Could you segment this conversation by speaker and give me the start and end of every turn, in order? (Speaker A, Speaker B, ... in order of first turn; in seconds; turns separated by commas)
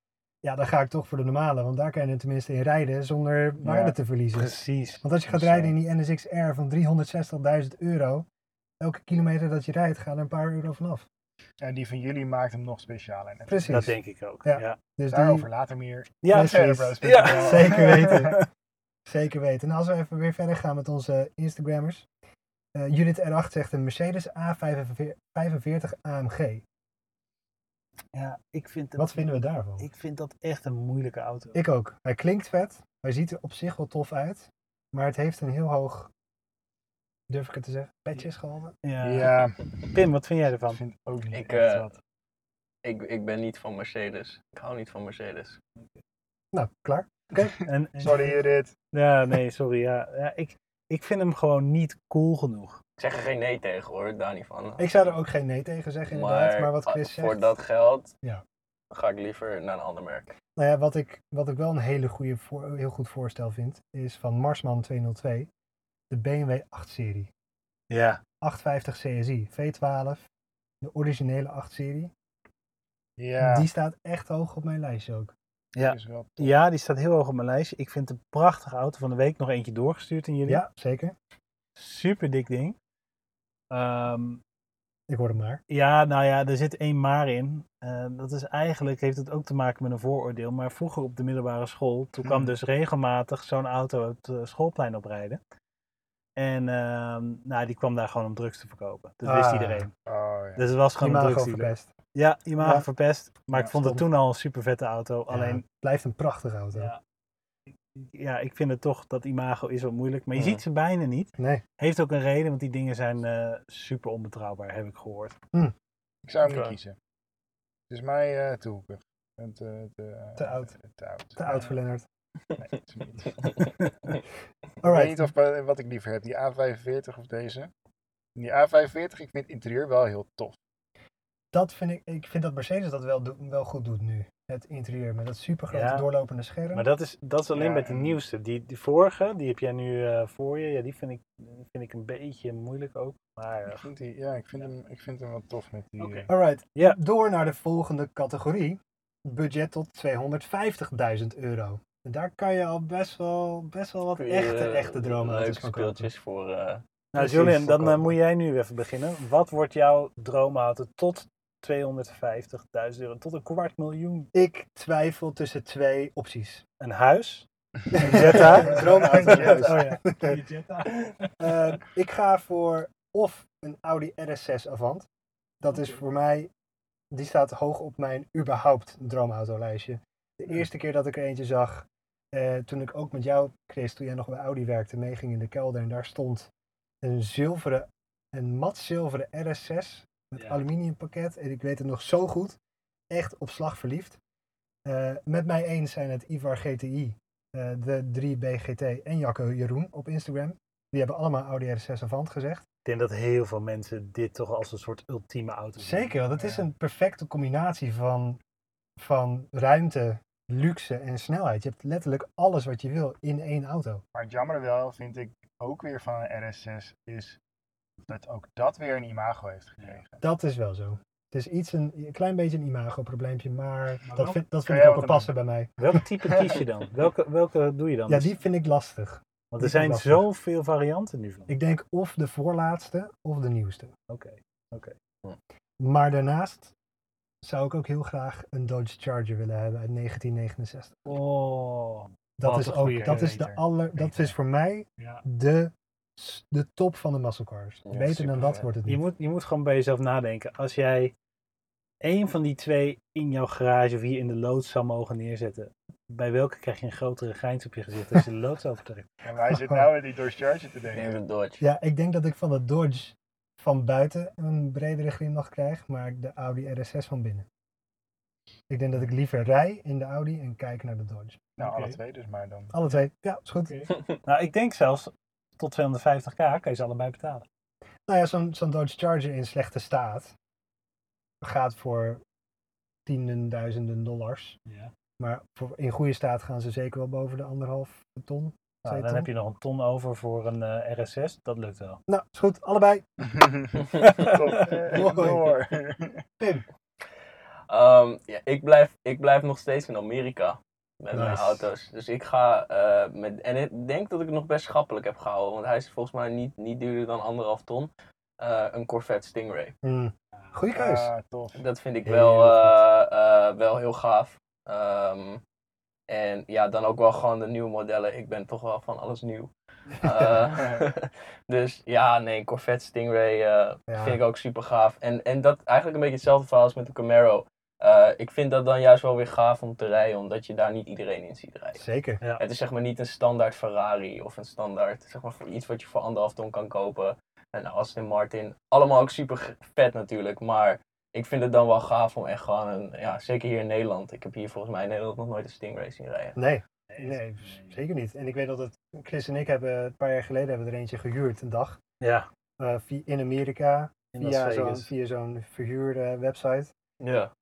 Speaker A: 0.4-8.2, Speaker B: 3.6-3.9, Speaker C: 4.3-5.7, Speaker A: 8.8-11.1, Speaker B: 11.6-13.9, Speaker A: 13.5-15.5, Speaker C: 13.7-14.8, Speaker B: 15.1-18.4, Speaker C: 16.2-18.5, Speaker A: 16.3-18.4, Speaker A: 19.1-22.0, Speaker A: 22.7-26.6, Speaker C: 28.1-31.6, Speaker A: 29.0-29.9, Speaker A: 31.5-36.1, Speaker A: 37.3-38.7, Speaker C: 38.8-39.4, Speaker B: 39.0-39.8, Speaker C: 39.9-40.8, Speaker B: 40.7-42.0, Speaker D: 41.3-41.9, Speaker D: 42.8-45.6, Speaker A: 46.5-48.3, Speaker C: 47.6-48.3, Speaker B: 48.0-48.7, Speaker C: 48.9-52.8, Speaker D: 53.0-54.9, Speaker A: 54.8-57.5, Speaker D: 56.1-58.1, Speaker D: 58.9-60.3, Speaker A: 60.5-65.5, Speaker A: 66.1-67.3, Speaker C: 67.9-68.2, Speaker A: 68.4-70.2, Speaker A: 70.8-72.1, Speaker B: 73.2-73.7, Speaker A: 73.4-75.3, Speaker C: 75.7-80.6, Speaker B: 75.8-76.5, Speaker A: 80.5-81.1, Speaker C: 81.8-82.8, Speaker C: 83.7-84.4, Speaker A: 85.1-85.6, Speaker C: 85.7-95.4, Speaker B: 92.2-92.5, Speaker C: 96.4-99.9, Speaker A: 99.2-99.9, Speaker B: 100.0-100.6, Speaker C: 100.6-105.6, Speaker A: 101.0-101.9, Speaker A: 102.6-102.8, Speaker A: 105.3-106.9, Speaker C: 106.7-107.0, Speaker C: 107.7-115.4, Speaker D: 110.3-110.6, Speaker A: 111.4-111.6, Speaker B: 116.3-117.0, Speaker C: 116.5-116.7, Speaker B: 117.9-121.6, Speaker A: 120.4-120.7, Speaker A: 121.4-122.0, Speaker B: 122.6-123.7, Speaker D: 123.4-123.7, Speaker A: 124.8-125.3, Speaker B: 124.8-127.7, Speaker B: 128.4-130.6, Speaker A: 131.5-136.8, Speaker C: 135.7-136.1, Speaker C: 136.7-143.9, Speaker B: 137.5-138.2, Speaker B: 143.7-146.3, Speaker C: 146.0-147.0, Speaker A: 146.3-156.1, Speaker D: 154.1-156.8, Speaker C: 157.1-164.3, Speaker A: 157.1-158.1, Speaker A: 164.3-166.6, Speaker C: 166.8-171.3, Speaker B: 167.9-169.8, Speaker A: 167.9-170.4, Speaker A: 171.4-175.1, Speaker A: 175.6-176.5, Speaker A: 177.1-186.5, Speaker A: 187.0-192.6, Speaker C: 190.3-190.6, Speaker A: 193.1-194.2, Speaker A: 194.8-202.6, Speaker C: 202.8-206.3, Speaker A: 205.8-208.4, Speaker B: 206.4-206.6, Speaker A: 209.0-214.0, Speaker B: 214.1-217.4, Speaker B: 218.1-220.2, Speaker A: 220.2-225.8, Speaker C: 224.0-224.4, Speaker B: 224.7-225.3, Speaker C: 225.8-228.3, Speaker A: 228.1-230.2, Speaker C: 229.5-231.6, Speaker A: 231.5-233.9, Speaker C: 234.1-234.9, Speaker A: 235.8-236.7, Speaker A: 237.4-241.2, Speaker C: 241.1-244.3, Speaker A: 242.4-249.0, Speaker B: 242.8-243.5, Speaker C: 245.0-245.2, Speaker D: 247.9-248.7, Speaker C: 248.8-251.1, Speaker C: 252.0-259.1, Speaker B: 259.2-261.2, Speaker D: 260.9-261.6, Speaker A: 261.6-267.4, Speaker A: 268.7-271.4, Speaker B: 271.6-272.7, Speaker C: 271.6-272.0, Speaker A: 272.7-273.8, Speaker C: 273.6-277.4, Speaker A: 278.1-280.3, Speaker A: 281.4-282.2, Speaker A: 283.1-284.6, Speaker C: 284.6-284.9, Speaker A: 285.2-289.3, Speaker C: 288.8-292.0, Speaker A: 292.1-293.0, Speaker B: 293.2-296.2, Speaker D: 294.0-294.3, Speaker C: 294.0-294.7, Speaker A: 294.8-295.5, Speaker A: 296.4-296.6, Speaker D: 297.7-309.7, Speaker A: 301.1-301.7, Speaker A: 309.8-311.1, Speaker B: 310.7-311.6, Speaker D: 311.6-315.4, Speaker A: 312.1-312.8, Speaker D: 316.1-331.8, Speaker A: 323.9-324.2, Speaker A: 331.8-332.2, Speaker D: 332.4-346.4, Speaker A: 346.4-351.8, Speaker C: 346.9-347.7, Speaker C: 352.0-352.3, Speaker A: 352.6-356.7, Speaker C: 354.1-354.9, Speaker D: 357.0-357.3